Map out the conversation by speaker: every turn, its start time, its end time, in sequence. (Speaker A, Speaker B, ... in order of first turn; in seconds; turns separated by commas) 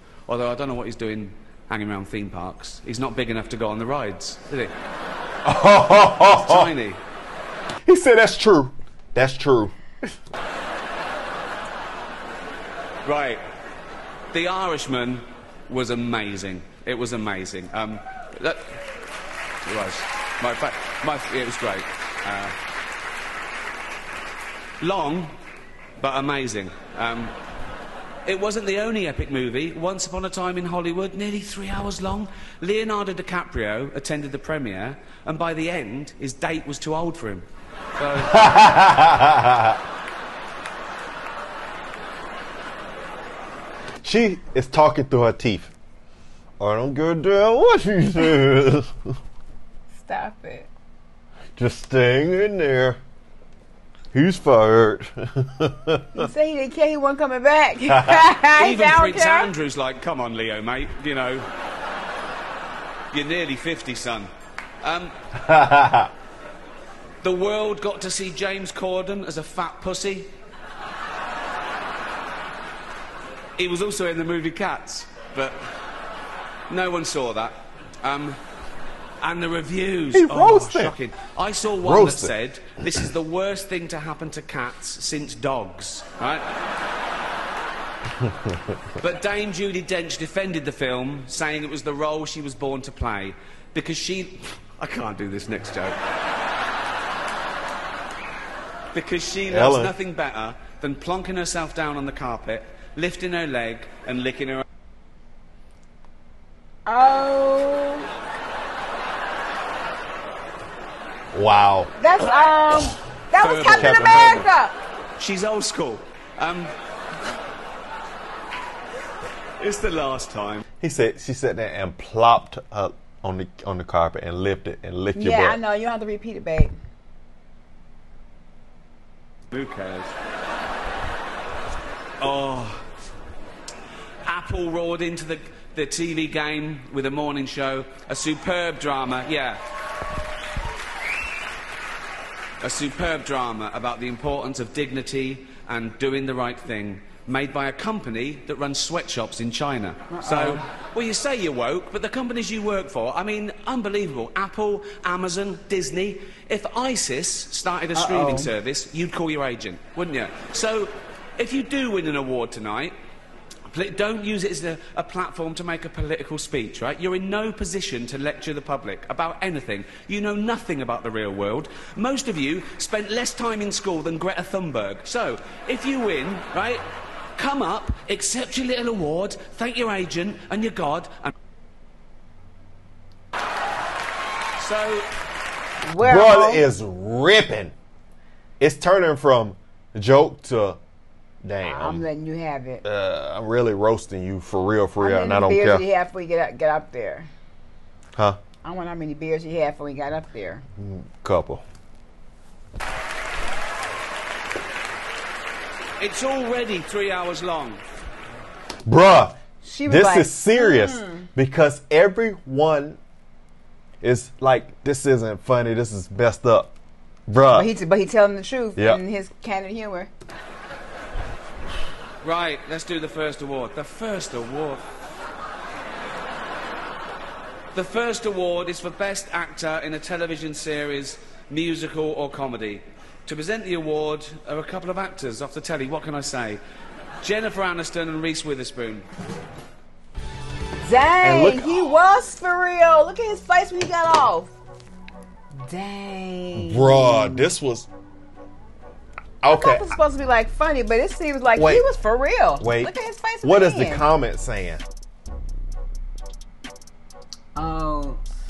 Speaker A: 0.3-4.7, Speaker B: 5.4-6.7, Speaker A: 6.2-7.0, Speaker B: 7.8-9.8, Speaker A: 13.0-13.4, Speaker A: 14.3-18.7, Speaker A: 19.6-22.6, Speaker A: 24.8-25.3, Speaker A: 26.0-27.3, Speaker A: 28.2-38.5, Speaker B: 38.3-39.8, Speaker B: 44.0-45.7, Speaker B: 46.6-48.9, Speaker C: 50.0-50.7, Speaker B: 51.6-53.0, Speaker B: 54.1-56.2, Speaker C: 56.1-59.5, Speaker B: 57.9-58.3, Speaker A: 58.5-61.5, Speaker A: 63.1-64.3, Speaker A: 64.8-65.1, Speaker B: 65.3-66.1, Speaker A: 67.2-70.3, Speaker A: 73.6-75.6, Speaker A: 76.7-78.4, Speaker A: 79.2-86.5, Speaker B: 80.1-80.9, Speaker B: 81.8-83.0, Speaker B: 88.2-88.5, Speaker A: 89.0-96.0, Speaker A: 98.9-104.6, Speaker B: 99.5-99.9, Speaker C: 106.8-108.1, Speaker B: 111.3-111.9, Speaker C: 112.0-114.8, Speaker A: 112.7-114.5, Speaker B: 113.6-114.4, Speaker A: 115.2-116.7, Speaker A: 119.6-120.6, Speaker B: 120.8-125.6, Speaker C: 125.2-126.7, Speaker A: 129.5-130.1, Speaker A: 132.2-132.8, Speaker A: 134.2-139.6, Speaker A: 142.6-162.9, Speaker C: 150.1-150.6, Speaker C: 157.9-158.5, Speaker A: 163.7-176.8, Speaker A: 177.4-181.3, Speaker A: 184.6-185.1, Speaker C: 185.8-186.6, Speaker B: 186.0-187.7, Speaker B: 188.6-190.8, Speaker B: 191.4-192.1, Speaker C: 191.7-192.8, Speaker B: 192.8-195.8, Speaker C: 195.0-197.3, Speaker C: 198.6-200.6, Speaker B: 200.8-201.6, Speaker A: 206.0-207.8, Speaker B: 208.8-213.0, Speaker C: 209.6-211.3, Speaker B: 214.0-216.7, Speaker B: 217.3-217.7, Speaker C: 217.6-220.1, Speaker A: 222.2-224.8, Speaker A: 227.7-236.6, Speaker A: 237.2-239.1, Speaker C: 240.8-244.5, Speaker B: 241.2-241.9, Speaker C: 245.6-247.5, Speaker B: 246.5-247.9, Speaker B: 249.4-250.0, Speaker C: 249.5-254.1, Speaker B: 251.5-251.9, Speaker B: 252.6-252.9, Speaker B: 253.4-254.8, Speaker C: 257.5-258.2